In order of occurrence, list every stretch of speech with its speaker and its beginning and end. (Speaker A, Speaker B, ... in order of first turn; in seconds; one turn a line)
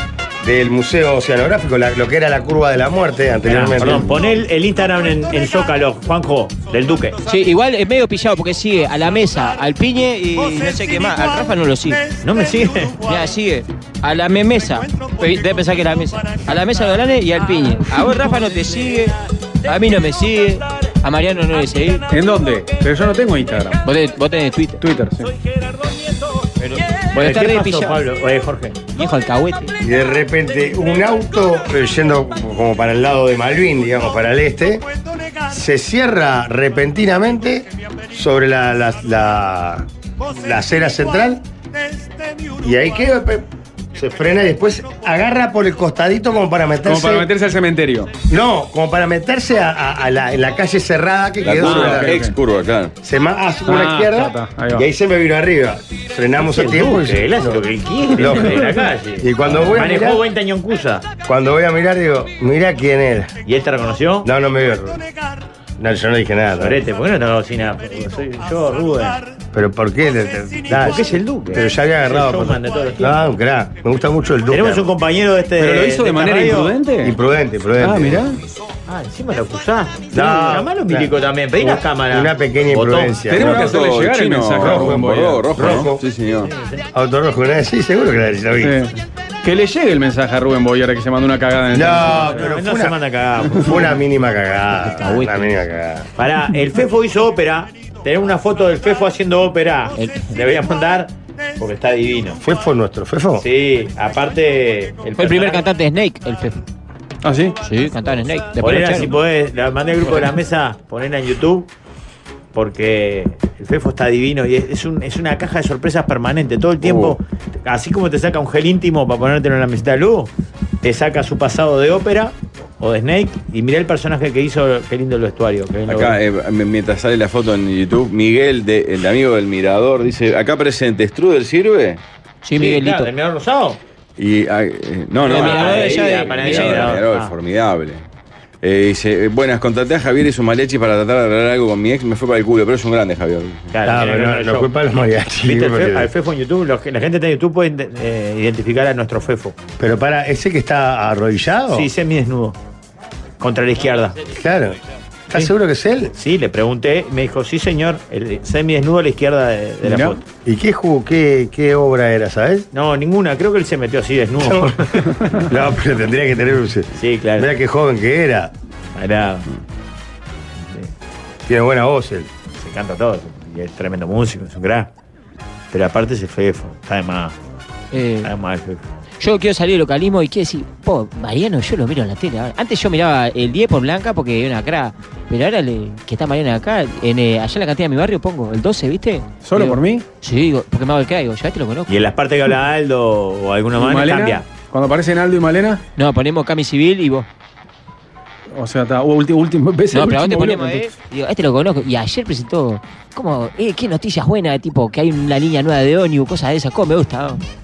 Speaker A: 0.4-4.2
Speaker B: 3.5-7.2
Speaker C: 7.2-12.1
Speaker B: 12.2-13.0
Speaker C: 13.0-22.1
Speaker D: 22.1-23.8
Speaker C: 23.8-24.8
Speaker D: 24.8-25.3
Speaker C: 26.6-28.0
Speaker B: 27.1-28.8
Speaker C: 28.9-29.7
Speaker A: 29.8-34.8
Speaker A: 35.5-41.4
Speaker A: 42.6-47.3
Speaker D: 46.8-48.1
Speaker A: 48.3-52.2
Speaker E: 51.4-52.9
Speaker D: 51.5-52.3
Speaker A: 53.0-60.2
Speaker D: 53.7-54.9
Speaker B: 56.5-61.1
Speaker A: 61.2-63.4
Speaker B: 63.4-64.3
Speaker A: 64.2-65.0
Speaker A: 65.8-66.8
Speaker B: 66.6-69.2
Speaker A: 69.5-74.9
Speaker B: 70.7-73.3
Speaker B: 74.5-76.7
Speaker D: 75.6-77.2
Speaker A: 77.0-78.3
Speaker D: 77.8-78.4
Speaker B: 78.9-83.2
Speaker A: 80.1-83.6
Speaker D: 83.3-85.5
Speaker E: 83.3-86.5
Speaker A: 84.6-86.0
Speaker B: 86.4-86.8
Speaker A: 86.9-88.8
Speaker D: 88.6-88.9
Speaker D: 89.4-92.4
Speaker A: 91.7-93.0
Speaker B: 92.1-93.9
Speaker A: 93.6-96.1
Speaker C: 94.8-95.6
Speaker B: 96.2-102.4
Speaker C: 100.0-100.3
Speaker A: 102.4-103.4
Speaker B: 103.4-105.7
Speaker C: 105.2-106.6
Speaker D: 107.2-107.6
Speaker C: 107.6-109.2
Speaker B: 108.6-111.7
Speaker B: 112.5-120.3
Speaker E: 116.8-117.2
Speaker B: 120.8-126.2
Speaker E: 125.9-132.0
Speaker C: 132.4-133.1
Speaker B: 132.6-133.8
Speaker E: 134.2-138.0
Speaker C: 135.2-137.0
Speaker B: 135.2-137.3
Speaker E: 138.6-143.7
Speaker B: 143.7-144.7
Speaker A: 143.8-146.1
Speaker B: 145.4-149.6
Speaker A: 149.8-151.9
Speaker B: 151.7-152.6
Speaker B: 153.4-154.2
Speaker A: 154.3-154.8
Speaker A: 155.3-156.1
Speaker B: 156.2-160.2
Speaker D: 159.8-160.2
Speaker A: 160.4-162.7
Speaker B: 162.7-165.2
Speaker A: 164.4-168.5
Speaker B: 167.0-167.5
Speaker B: 168.9-169.4
Speaker A: 171.4-172.3
Speaker B: 172.6-174.9
Speaker B: 175.7-177.3
Speaker C: 177.9-178.3
Speaker B: 178.2-178.8
Speaker C: 179.2-191.9
Speaker D: 189.4-190.0
Speaker B: 191.9-194.4
Speaker D: 193.8-195.8
Speaker C: 196.0-197.3
Speaker D: 198.5-200.9
Speaker C: 199.9-207.4